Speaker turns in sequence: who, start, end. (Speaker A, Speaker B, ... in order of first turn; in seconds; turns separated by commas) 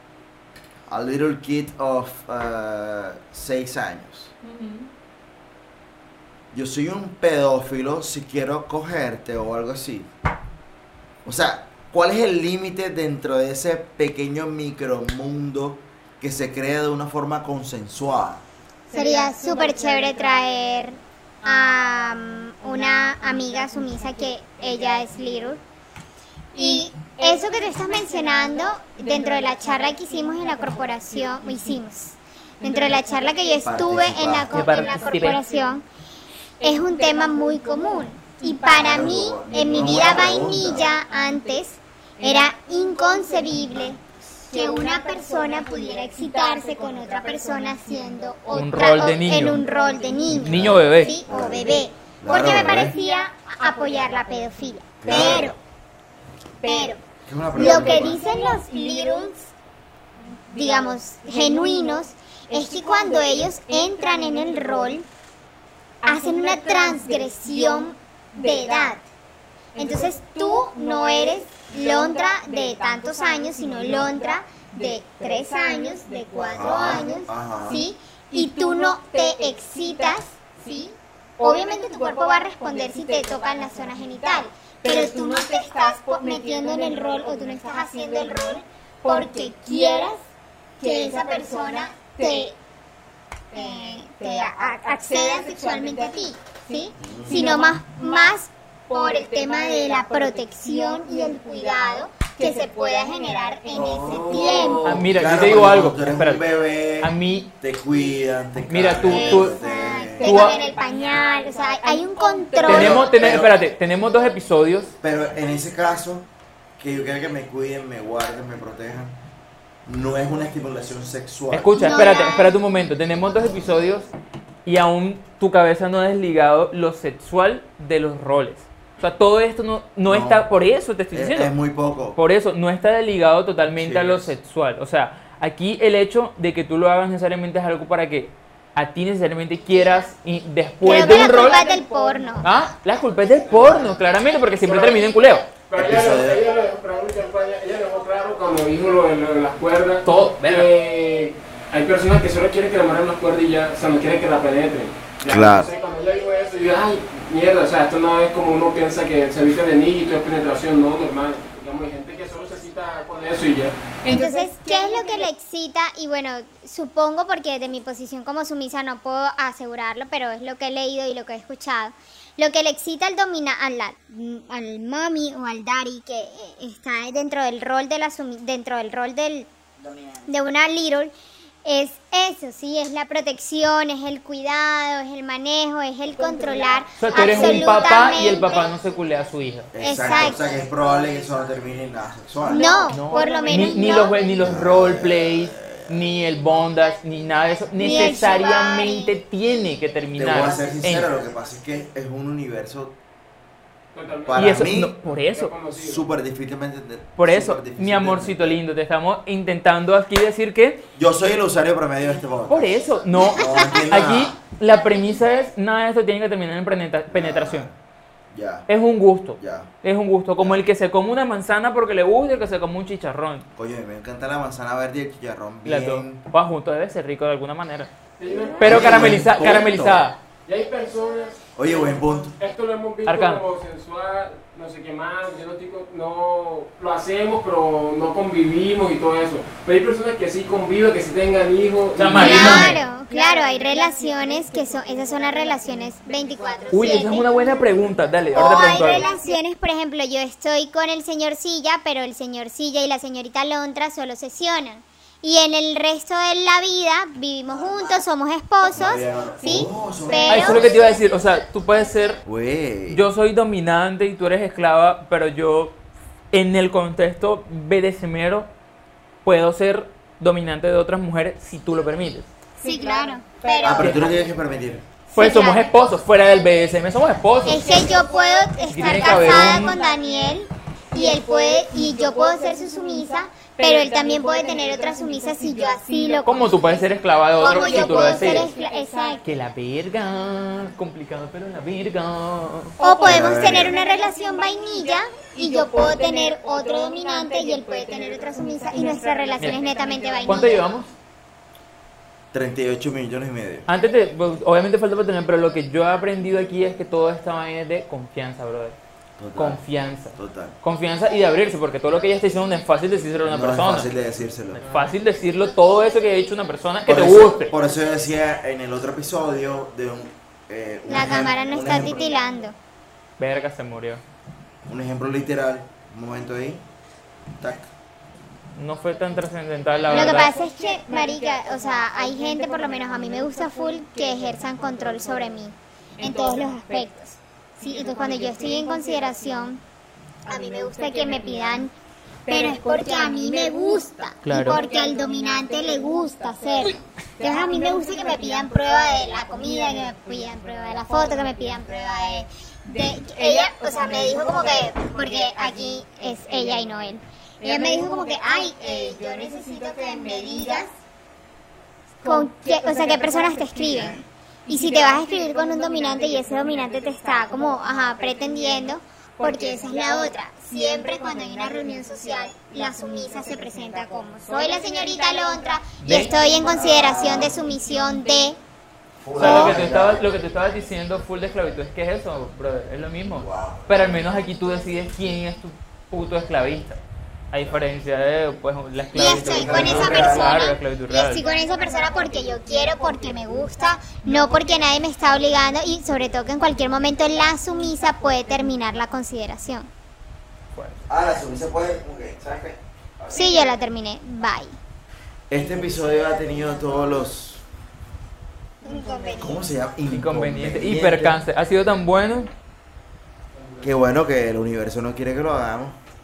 Speaker A: 0.9-4.3, Speaker B: 4.4-4.8, Speaker A: 6.5-10.1, Speaker A: 11.2-18.4, Speaker C: 18.9-25.6, Speaker C: 26.5-35.8, Speaker A: 33.6-34.6, Speaker B: 34.5-35.4, Speaker C: 36.6-55.6, Speaker A: 38.7-40.9, Speaker B: 48.5-49.6, Speaker B: 50.4-51.1, Speaker A: 50.4-51.7, Speaker A: 52.2-52.9, Speaker A: 55.0-55.5, Speaker C: 56.6-57.0, Speaker A: 57.3-58.2, Speaker C: 57.5-59.5, Speaker C: 60.5-65.1, Speaker C: 66.0-69.0, Speaker C: 69.8-90.2, Speaker A: 76.5-77.8, Speaker C: 90.8-92.5, Speaker C: 93.5-104.9, Speaker A: 97.0-97.5, Speaker A: 103.7-110.4, Speaker B: 104.8-106.4, Speaker B: 107.0-107.5, Speaker B: 108.7-109.5, Speaker C: 109.1-113.1, Speaker B: 110.2-110.6, Speaker A: 112.7-113.5, Speaker B: 112.7-114.9, Speaker A: 115.0-119.2, Speaker A: 119.8-122.1, Speaker B: 121.5-124.1, Speaker C: 121.8-122.5, Speaker B: 124.6-131.5, Speaker A: 130.1-130.5, Speaker A: 131.1-132.2, Speaker B: 132.1-141.6, Speaker A: 133.8-134.3, Speaker C: 140.8-142.5, Speaker B: 142.4-145.5, Speaker D: 144.6-145.1, Speaker D: 145.7-163.7, Speaker A: 145.7-146.4, Speaker B: 150.0-150.7, Speaker A: 155.2-155.7, Speaker C: 164.0-179.5, Speaker C: 180.2-181.1, Speaker C: 181.6-188.7, Speaker B: 187.0-189.7, Speaker A: 189.7-192.7, Speaker C: 189.8-190.4, Speaker C: 192.5-194.2, Speaker B: 192.9-201.1, Speaker A: 194.4-195.9, Speaker C: 197.8-199.1, Speaker A: 200.2-202.9, Speaker D: 203.9-204.5, Speaker A: 204.3-204.9, Speaker B: 204.3-205.5, Speaker D: 205.1-206.0, Speaker A: 205.7-208.6, Speaker B: 207.2-210.8, Speaker A: 210.9-214.3, Speaker B: 212.5-217.7, Speaker A: 217.1-217.8, Speaker A: 218.3-218.7, Speaker B: 218.7-223.5, Speaker A: 219.4-219.7, Speaker A: 223.6-226.2, Speaker B: 225.6-227.9, Speaker D: 228.2-229.2, Speaker B: 228.6-230.2, Speaker A: 228.6-230.0, Speaker D: 230.4-242.7, Speaker A: 231.6-232.3, Speaker B: 233.1-233.4, Speaker B: 242.0-242.8, Speaker C: 242.1-247.3, Speaker B: 246.7-249.0, Speaker C: 248.3-260.9, Speaker A: 258.7-260.7, Speaker B: 260.3-262.2, Speaker A: 262.2-263.0, Speaker B: 262.9-265.8, Speaker B: 266.3-268.5, Speaker B: 269.2-272.3, Speaker C: 272.6-274.1, Speaker A: 273.6-274.8, Speaker B: 273.8-274.1, Speaker B: 275.1-277.6, Speaker C: 275.1-275.7, Speaker C: 277.4-286.6, Speaker B: 278.7-279.8, Speaker B: 286.2-288.5, Speaker C: 287.4-289.2, Speaker B: 289.2-292.8, Speaker C: 292.8-300.6, Speaker A: 293.1-293.8, Speaker B: 300.2-300.9, Speaker A: 302.3-303.7, Speaker B: 303.7-308.8, Speaker A: 309.2-309.6, Speaker B: 309.4-313.9, Speaker A: 310.1-310.6, Speaker A: 313.2-314.6, Speaker B: 314.6-317.5, Speaker A: 316.9-322.0, Speaker C: 320.9-322.5, Speaker B: 323.2-324.0, Speaker A: 324.7-326.6, Speaker A: 327.4-327.7, Speaker B: 328.6-330.3, Speaker C: 329.9-339.6, Speaker C: 340.3-341.7, Speaker C: 342.3-360.7, Speaker B: 344.2-344.6, Speaker C: 362.0-378.4, Speaker B: 375.8-376.1, Speaker A: 376.4-377.4, Speaker A: 379.0-380.0, Speaker B: 379.1-386.8, Speaker A: 383.2-383.7, Speaker B: 387.3-391.2, Speaker C: 388.9-399.7, Speaker A: 389.0-390.4, Speaker B: 400.5-400.8, Speaker A: 400.9-403.3, Speaker C: 403.1-404.6, Speaker A: 405.3-407.4, Speaker C: 408.6-409.4, Speaker A: 409.2-411.2, Speaker B: 409.9-412.3, Speaker A: 413.6-415.8